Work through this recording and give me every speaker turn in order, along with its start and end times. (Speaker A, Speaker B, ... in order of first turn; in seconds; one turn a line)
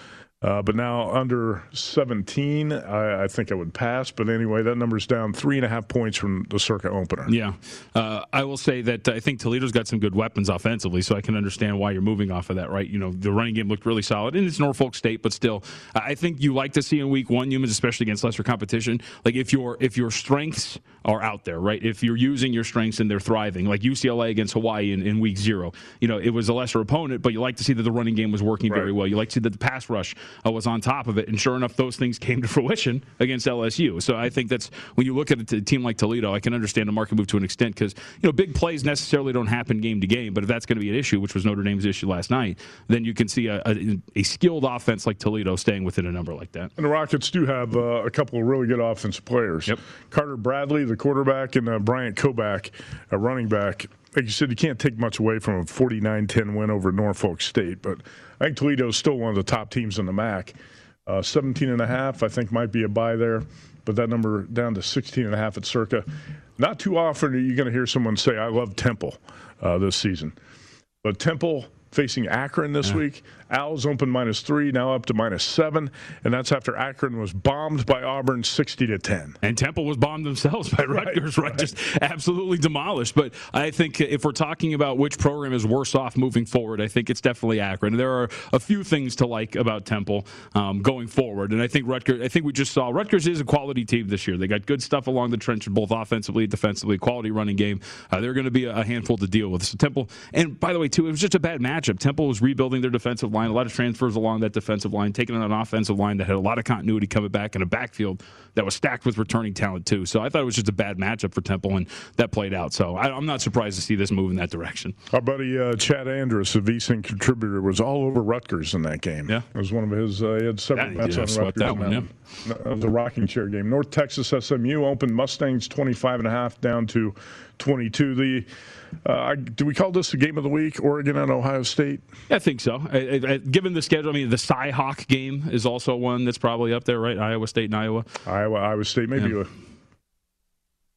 Speaker A: 0.4-7.3
Speaker B: 7.3-46.7
Speaker A: 46.8-60.5
Speaker A: 61.1-66.0
Speaker A: 66.6-70.3
Speaker A: 71.0-79.4
Speaker B: 79.4-114.9
Speaker A: 80.9-81.7
Speaker A: 115.1-128.5
Speaker B: 120.7-122.1
Speaker A: 129.0-132.0
Speaker B: 132.3-138.1
Speaker A: 138.2-139.5